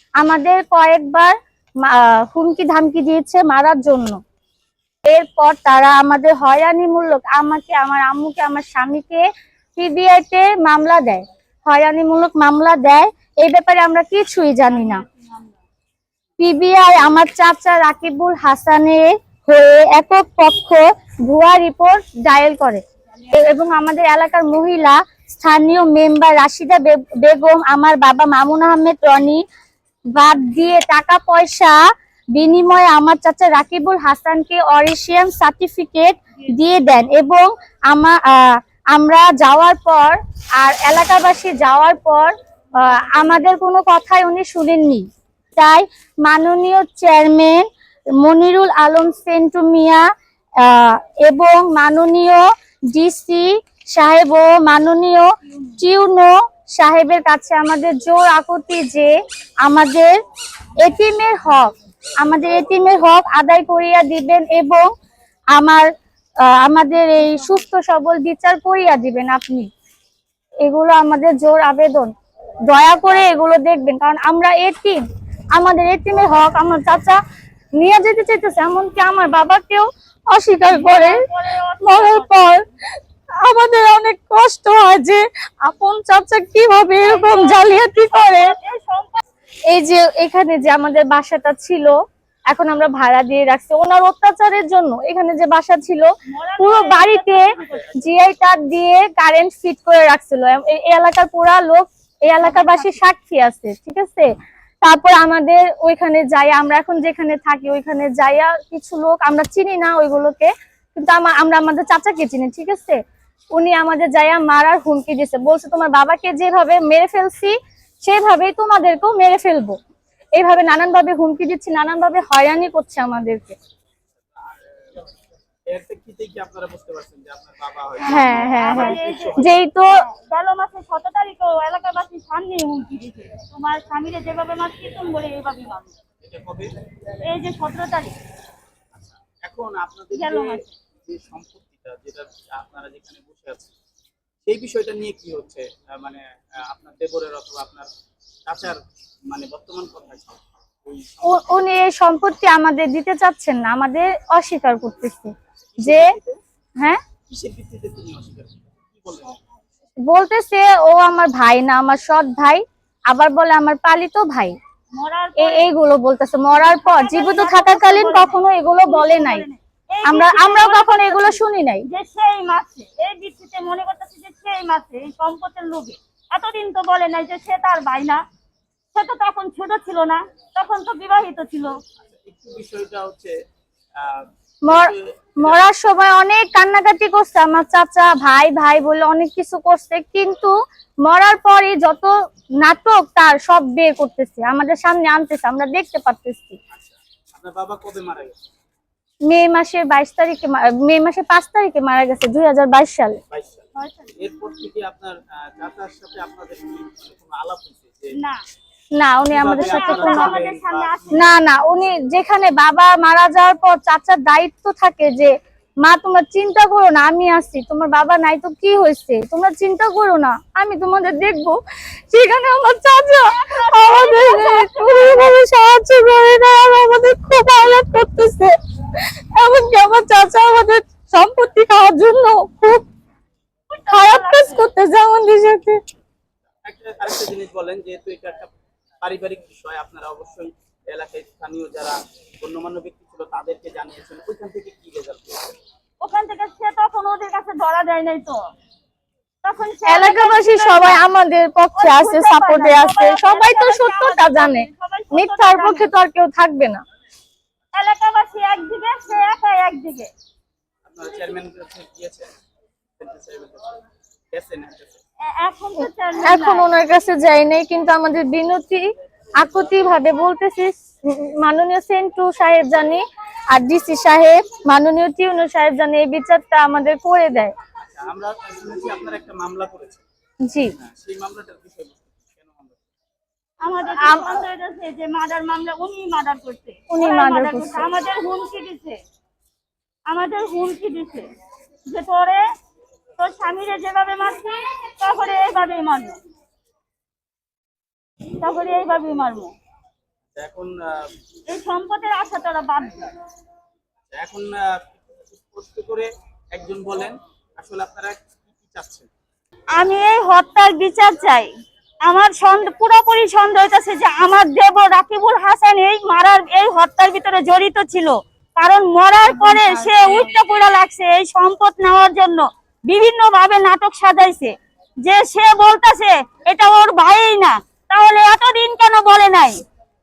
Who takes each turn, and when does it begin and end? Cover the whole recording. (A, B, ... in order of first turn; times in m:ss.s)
0:00.2-0:04.2 A
0:05.0-0:09.2 A
0:09.8-0:15.0 A
0:14.8-0:15.5 B
0:16.4-0:29.4 A
0:30.2-0:31.8 A
0:32.4-0:47.7 A
0:48.2-0:50.0 A
0:50.6-0:59.1 A
0:59.6-1:00.1 A
1:00.8-1:04.9 A
1:05.6-1:05.9 A
1:06.4-1:09.7 A
1:10.6-1:12.1 A
1:12.7-1:15.0 A
1:15.6-1:17.2 A
1:17.8-1:21.2 A
1:20.7-1:22.6 B
1:21.8-1:22.7 A
1:23.4-1:28.5 A
1:27.0-1:29.2 B
1:29.7-1:32.0 A
1:32.5-1:36.1 A
1:36.3-1:38.0 B
1:36.6-1:44.3 A
1:42.4-1:43.0 B
1:44.8-1:53.0 A
1:53.6-1:59.8 A
2:00.4-2:03.6 A
2:04.4-2:04.8 C
2:05.7-2:09.6 C
2:08.0-2:09.9 A
2:08.1-2:16.0 B
2:16.2-2:16.7 C
2:17.2-2:18.1 B
2:19.0-2:23.7 C
2:20.1-2:20.7 B
2:24.5-2:27.9 C
2:28.5-2:31.4 C
2:31.2-2:36.1 A
2:35.7-2:36.4 C
2:37.3-2:39.4 C
2:40.1-2:44.6 A
2:44.9-2:45.7 B
2:45.4-2:49.4 A
2:46.5-2:58.2 B
2:50.0-2:51.9 A
2:58.9-3:01.8 B
3:02.0-3:03.4 C
3:04.0-3:05.6 C
3:04.7-3:10.5 A
3:11.0-3:16.6 A
3:16.7-3:18.4 C
3:19.3-3:23.2 A
3:23.3-3:28.1 C
3:23.8-3:24.1 B
3:29.0-3:30.4 A
3:29.3-3:31.3 C
3:29.6-3:31.3 B
3:31.1-3:41.6 A
3:42.1-3:48.5 A
3:43.2-3:45.4 B
3:49.4-3:52.8 A
3:53.7-3:54.7 B
3:53.9-3:55.8 A
3:56.6-3:58.5 C
3:59.0-4:05.6 C
4:06.0-4:08.4 B
4:09.4-4:11.0 B
4:09.9-4:16.8 A
4:11.7-4:15.9 B
4:17.7-4:20.1 B
4:20.8-4:22.3 C
4:23.0-4:23.8 C
4:24.3-4:25.0 C
4:25.3-4:26.7 B
4:26.2-4:37.5 A
4:37.8-4:40.0 C
4:40.5-4:40.7 A
4:40.8-4:42.8 C
4:43.6-4:49.0 B
4:43.9-4:44.4 A
4:46.9-4:47.9 A
4:50.1-4:51.3 B
4:51.9-4:52.4 B
4:53.2-4:56.2 B
4:58.4-4:59.5 B
5:00.4-5:01.2 C
5:01.5-5:03.1 B
5:04.1-5:09.1 C
5:09.8-5:11.5 B
5:12.1-5:29.6 B
5:19.5-5:19.8 A